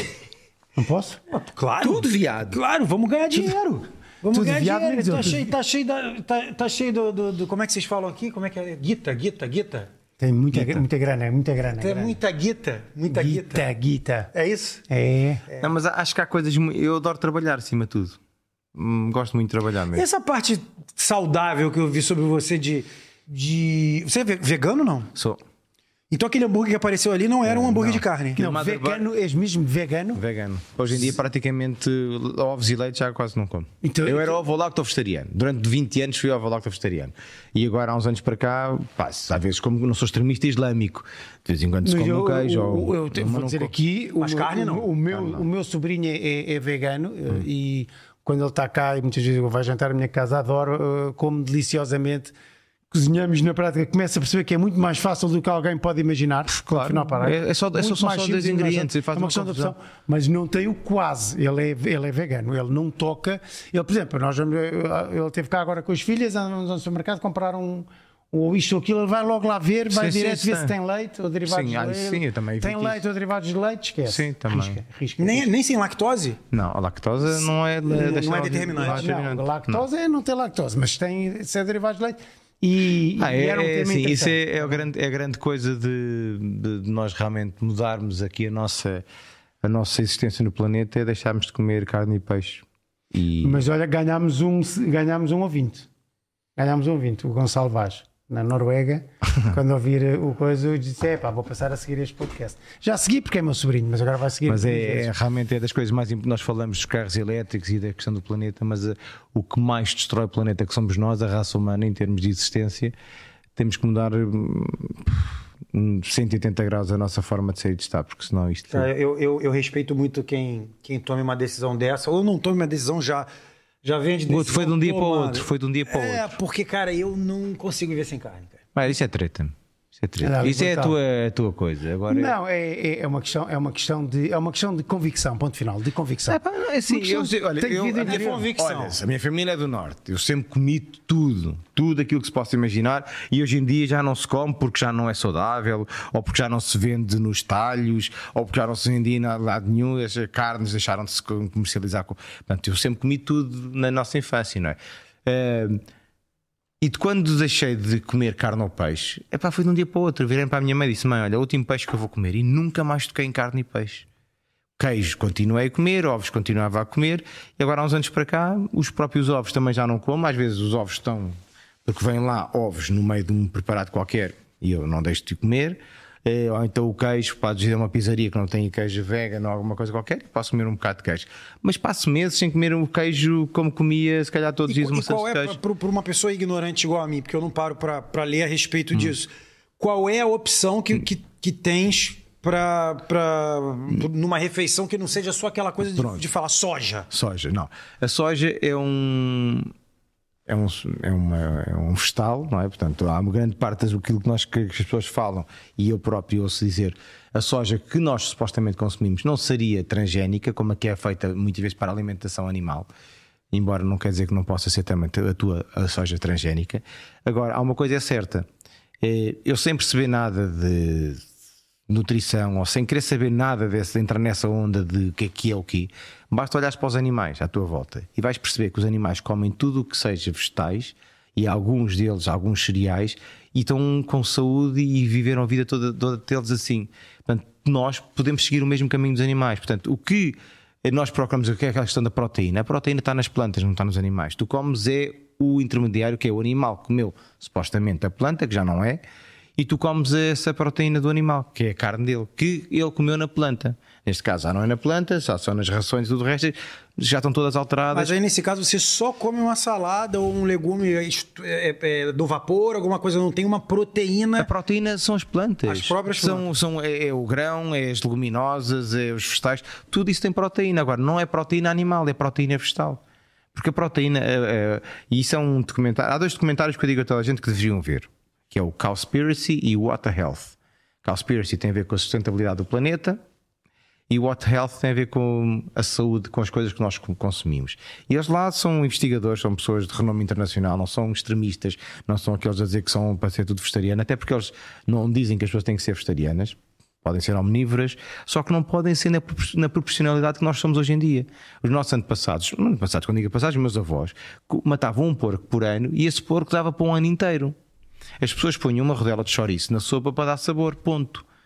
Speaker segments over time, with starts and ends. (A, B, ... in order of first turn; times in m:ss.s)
0:00.7-0:01.2 A
0:01.3-0:09.9 B
0:01.8-0:02.6 C
0:04.3-0:05.5 A
0:10.2-0:12.2 A
0:10.5-0:10.8 C
0:11.7-0:13.7 B
0:13.1-0:14.3 A
0:14.3-0:14.8 B
0:14.9-0:15.4 A
0:15.6-0:18.2 C
0:18.7-0:20.0 C
0:19.9-0:25.1 B
0:25.1-0:25.4 C
0:26.1-0:28.4 B
0:27.4-0:29.0 C
0:28.4-0:30.2 A
0:30.1-0:43.7 C
0:33.8-0:34.4 A
0:41.8-0:52.3 A
0:44.2-0:44.9 B
0:45.1-0:45.4 C
0:52.9-1:15.5 A
0:56.5-0:59.7 C
1:09.9-1:10.7 C
1:11.4-1:13.0 C
1:14.0-1:14.8 C
1:15.2-1:16.4 B
1:16.5-1:19.8 C
1:17.5-1:24.9 A
1:17.9-1:19.1 B
1:23.2-1:29.0 C
1:29.6-1:33.6 C
1:33.4-1:35.9 A
1:36.6-1:45.1 A
1:44.4-1:52.9 C
1:53.5-1:58.9 C
1:58.7-2:03.3 B
2:03.8-2:08.7 B
2:04.3-2:06.4 C
2:08.7-2:12.3 C
2:10.2-2:11.0 A
2:12.1-2:18.5 A
2:16.3-2:35.8 C
2:18.0-2:19.0 B
2:36.8-2:44.1 C
2:44.8-3:05.6 C
3:04.7-3:17.1 B
3:15.8-3:16.3 C
3:17.1-3:19.7 C
3:20.5-3:32.9 C
3:33.5-3:38.5 C
3:39.0-3:41.3 C
3:41.9-4:09.0 C
4:09.6-4:18.1 C
4:17.9-4:24.5 B
4:24.4-4:33.0 C
4:25.7-4:26.5 B
4:33.5-4:43.2 C
4:44.1-5:07.5 C
5:08.2-5:11.2 C